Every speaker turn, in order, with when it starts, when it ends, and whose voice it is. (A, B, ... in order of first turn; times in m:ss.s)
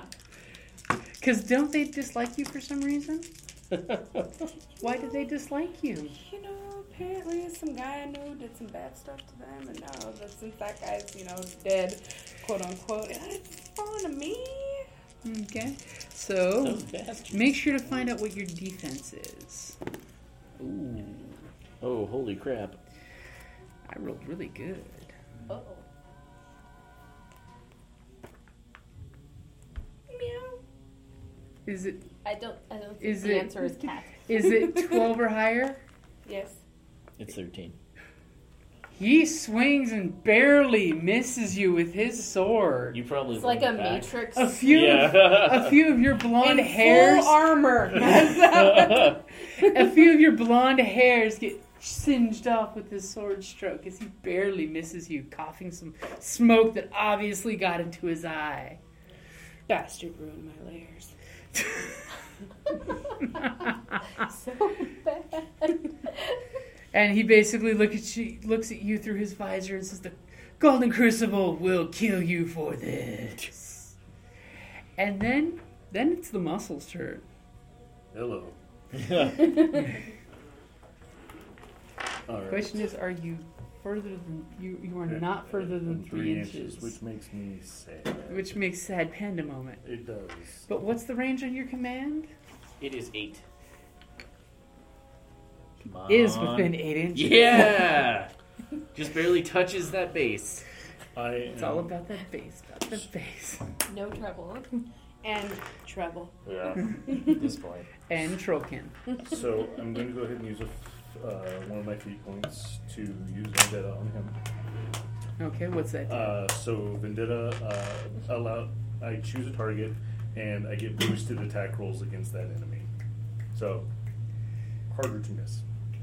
0:01.2-0:03.3 A
0:04.8-0:06.2 A
0:06.2-0:14.9 B
0:15.2-0:19.8 A
0:16.6-0:17.6 C
0:20.6-0:21.4 A
0:21.8-0:22.8 C
0:23.9-0:25.1 A
0:25.5-0:25.8 D
0:30.1-0:30.6 B
0:31.7-0:32.1 A
0:32.2-0:34.3 D
0:33.0-0:33.6 A
0:34.3-0:35.8 A
0:36.3-0:36.6 B
0:37.2-0:37.8 C
0:39.0-0:43.0 A
0:42.9-0:44.1 C
0:43.3-0:45.1 D
0:44.4-0:47.6 A
0:44.7-0:45.8 C
0:46.4-0:49.7 B
0:48.5-0:49.1 C
0:49.6-0:58.8 A
0:59.7-1:01.1 B
1:04.2-1:06.4 D
1:06.9-1:13.9 A
1:15.0-1:17.2 A
1:18.1-1:18.6 E
1:19.0-1:19.7 C
1:22.3-1:22.8 E
1:22.5-1:27.0 A
1:25.1-1:28.5 E
1:28.3-1:29.8 A
1:29.8-1:30.7 E
1:30.7-1:32.3 A
1:32.8-1:33.5 C
1:35.8-1:38.3 C
1:36.1-1:37.8 A
1:38.9-1:40.6 C
1:41.2-1:41.9 E
1:41.6-1:43.7 A
1:43.9-1:44.7 D
1:45.2-1:46.4 B
1:46.5-1:47.9 C
1:48.1-1:49.0 A
1:49.2-1:54.4 E
1:55.4-1:56.4 A
1:56.1-2:02.9 E
2:03.5-2:03.9 E
2:04.9-2:05.6 E